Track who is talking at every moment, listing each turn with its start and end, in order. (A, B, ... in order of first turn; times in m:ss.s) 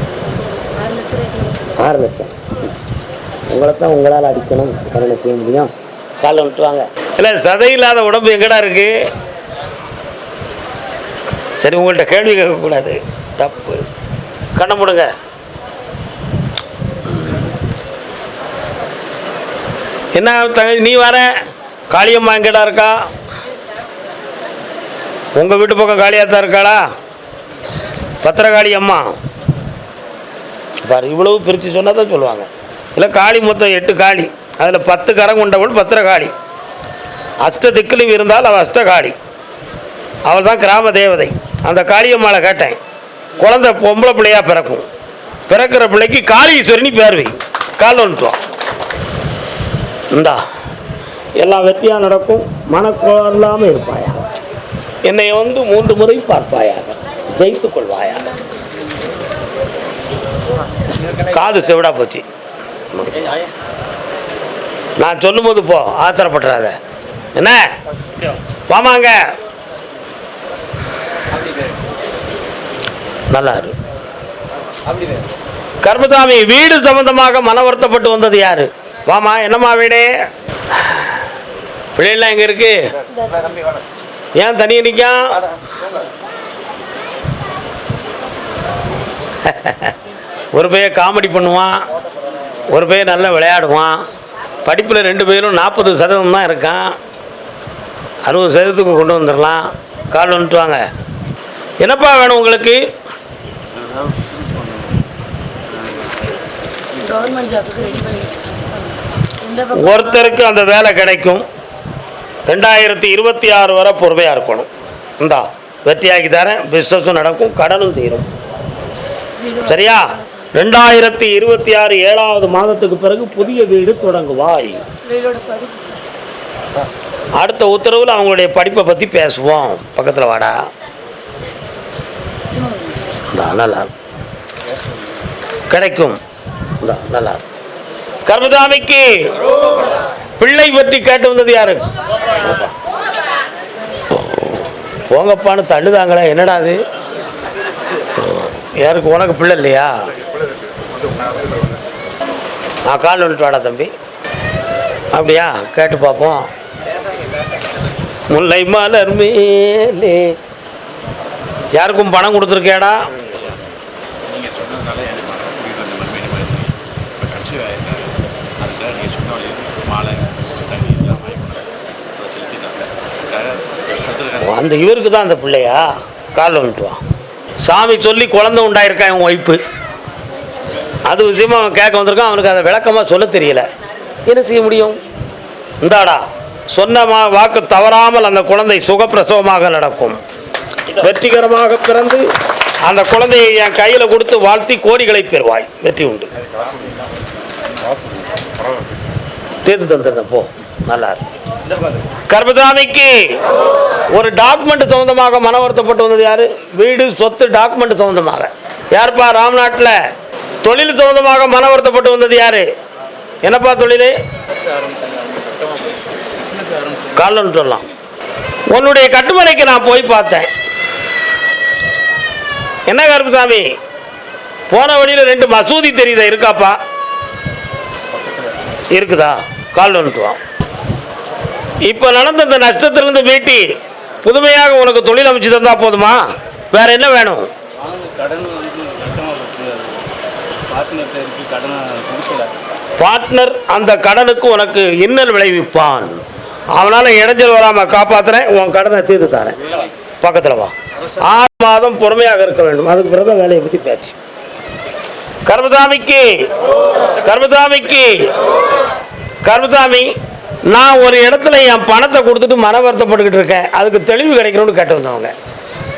0:00.7-0:01.7 A
0:01.8-0:02.4 B
0:03.5-0:09.1 B
0:11.6-0:13.8 B
0:14.6-0:15.1 B
0:20.2-0:21.3 B
0:21.9-0:23.0 B
0:25.4-0:26.9 B
0:28.2-0:29.1 B
0:30.8-0:36.3 B
0:37.4-0:39.2 B
0:40.3-0:42.8 B
0:43.4-0:44.8 B
0:45.5-0:48.4 B
0:50.1-0:50.4 B
0:51.4-0:54.2 B
0:55.0-0:58.3 B
1:01.0-1:01.3 C
1:01.3-1:02.2 B
1:03.0-1:03.3 B
1:05.0-1:06.8 B
1:07.4-1:07.7 B
1:08.7-1:09.2 B
1:11.4-1:11.7 C
1:13.3-1:13.7 B
1:15.8-1:20.1 B
1:20.7-1:21.1 B
1:22.0-1:22.8 B
1:23.2-1:23.5 A
1:24.4-1:25.4 B
1:29.4-1:29.9 B
1:30.5-1:31.9 B
1:32.7-1:34.1 B
1:34.6-1:37.0 B
1:38.3-1:40.8 B
1:41.8-1:42.9 B
1:43.7-1:45.0 C
1:45.7-1:46.4 C
1:46.9-1:47.5 C
1:47.0-1:50.4 A
1:49.7-1:51.4 B
1:52.5-1:54.7 B
1:55.2-1:58.3 B
1:59.4-2:00.5 A
1:59.6-2:04.8 B
2:05.0-2:06.0 A
2:07.4-2:10.6 B
2:12.5-2:13.2 A
2:13.3-2:13.9 B
2:14.7-2:15.0 C
2:15.7-2:16.2 B
2:16.8-2:17.4 B
2:18.3-2:19.4 B
2:20.4-2:21.8 B
2:22.4-2:22.7 B
2:24.1-2:26.8 B
2:28.2-2:30.1 B
2:32.9-2:33.9 B
2:35.1-2:36.5 B
2:38.3-2:40.4 B
2:41.8-2:43.0 B
2:44.3-2:54.6 C
2:54.4-2:57.0 B
2:57.6-2:59.6 B
3:01.1-3:03.7 B
3:04.3-3:05.0 B
3:05.8-3:10.2 B
3:10.9-3:12.3 B
3:12.8-3:16.3 B
3:16.4-3:18.7 C
3:19.6-3:21.2 B
3:22.3-3:23.4 B
3:24.1-3:30.0 B
3:30.6-3:32.7 B
3:33.4-3:34.1 B
3:34.6-3:37.3 C
3:37.2-3:37.8 B
3:38.7-3:40.5 B
3:42.9-3:43.7 B
3:44.7-3:46.8 B
3:48.1-3:48.6 C
3:48.9-3:50.4 B
3:51.8-3:53.7 B
3:54.2-3:57.5 B
3:57.8-4:00.1 C
4:00.7-4:02.6 C
4:03.0-4:06.2 B
4:06.7-4:09.6 B
4:10.2-4:14.2 B
4:15.5-4:16.5 B
4:17.2-4:18.3 B
4:19.4-4:20.1 B
4:20.7-4:25.3 B